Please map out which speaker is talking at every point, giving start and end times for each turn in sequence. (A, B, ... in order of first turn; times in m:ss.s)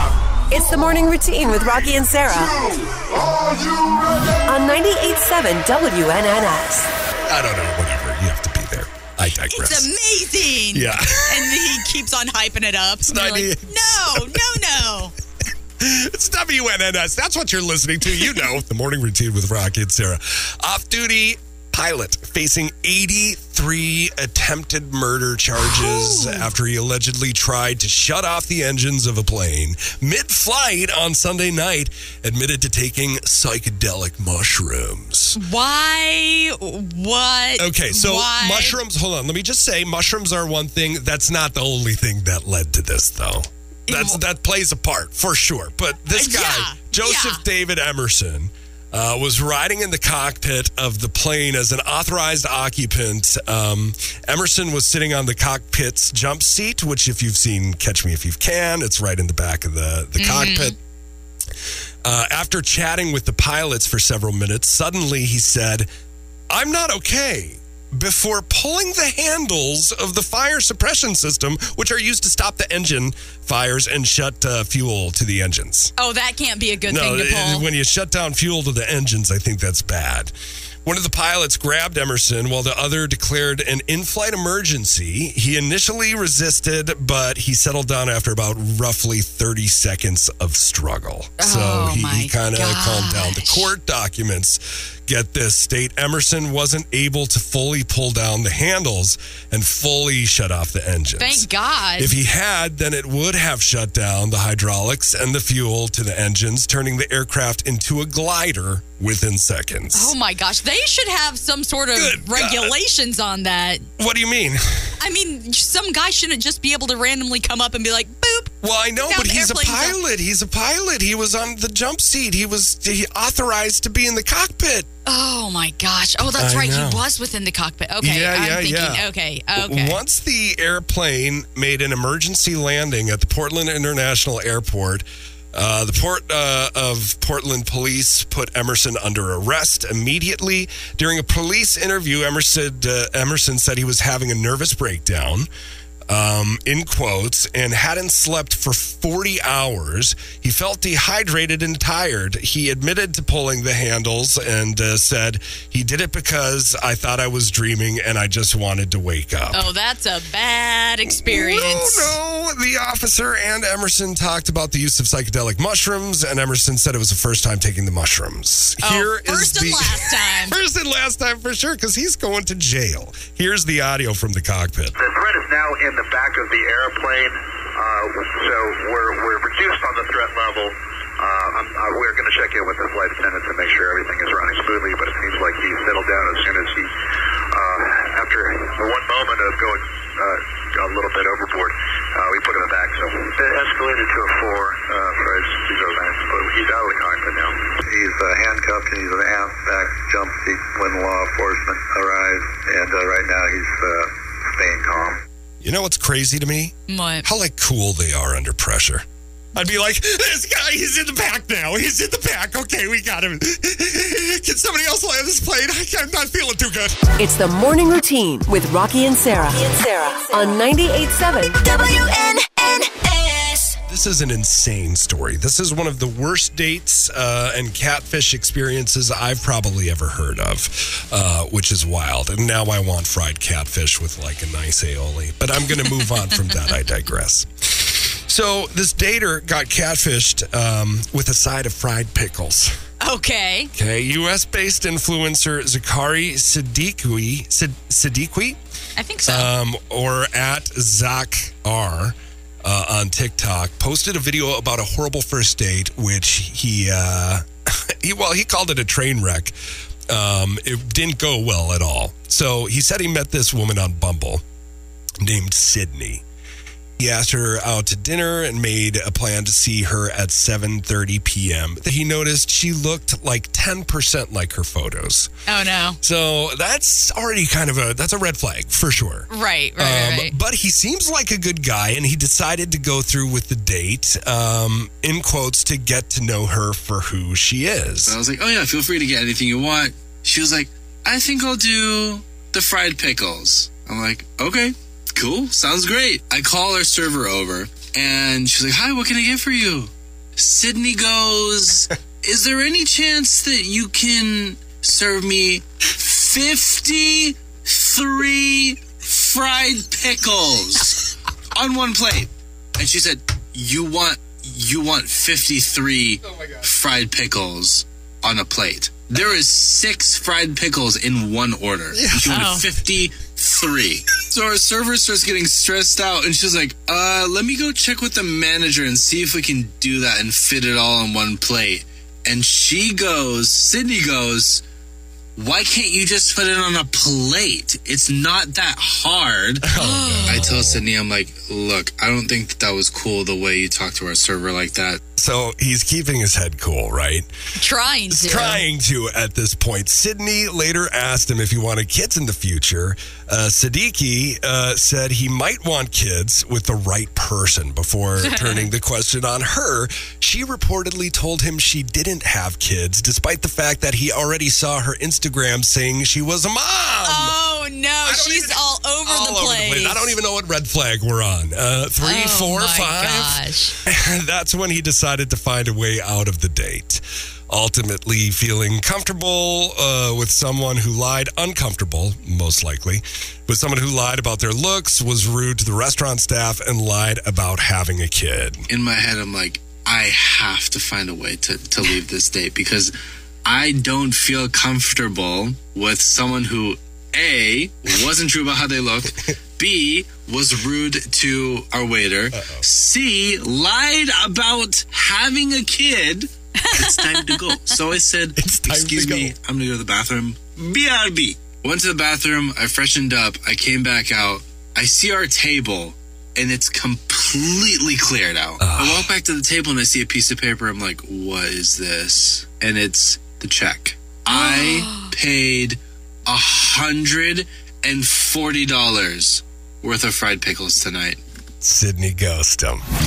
0:00.5-0:02.6 A
0:04.4-0:06.9 A
0:07.3-0:09.9 B
0:09.5-0:15.1 C
0:10.7-0:11.9 B
0:13.0-0:14.4 B
0:15.8-0:35.4 B
0:25.7-0:26.5 C
0:35.3-0:38.8 C
0:37.6-1:00.8 B
0:43.9-0:44.2 C
0:46.1-0:47.4 C
1:00.2-1:00.7 C
1:02.0-1:05.9 B
1:06.5-1:15.9 B
1:16.0-1:17.6 C
1:16.8-1:20.3 B
1:20.8-1:50.1 B
1:31.4-1:33.7 C
1:41.2-1:42.1 C
1:49.9-1:53.9 C
1:51.9-1:52.8 B
1:54.0-1:54.9 B
1:55.0-2:00.0 C
1:58.6-2:04.9 B
2:05.0-2:10.0 C
2:06.2-2:07.0 B
2:08.0-2:25.5 B
2:26.1-2:39.7 B
2:39.5-2:42.1 C
2:41.1-2:55.0 B
2:48.8-2:50.6 C
2:55.0-3:06.9 D
3:07.5-3:25.2 D
3:25.6-3:37.0 B
3:26.9-3:27.2 C
3:37.1-3:41.7 A
3:41.6-3:43.8 E
3:43.9-4:02.8 B
4:03.0-4:03.7 C
4:03.7-4:08.6 B
4:09.0-4:09.5 C
4:09.3-4:19.5 B
4:20.1-4:24.4 B
4:25.2-4:26.2 B
4:27.0-4:35.3 B
4:35.5-4:36.0 C
4:36.0-4:48.2 B
4:39.3-4:40.3 C
4:48.0-5:34.6 F
5:21.9-5:22.5 B
5:22.3-5:22.7 C
5:35.4-5:39.7 F
5:39.6-5:40.8 B
5:39.8-5:40.4 C
5:40.3-5:45.0 F
5:45.2-5:47.3 B
5:47.6-5:48.6 C
5:48.1-6:07.4 B
5:58.2-5:58.7 C
6:07.0-6:10.2 C
6:08.0-6:28.7 B
6:12.0-6:13.8 C
6:28.7-6:32.9 F
6:33.4-7:11.2 F
6:42.3-6:42.6 B
6:46.6-6:47.6 C
6:48.4-6:49.3 B
6:58.6-6:59.1 B
7:04.3-7:05.1 C
7:11.6-7:12.8 B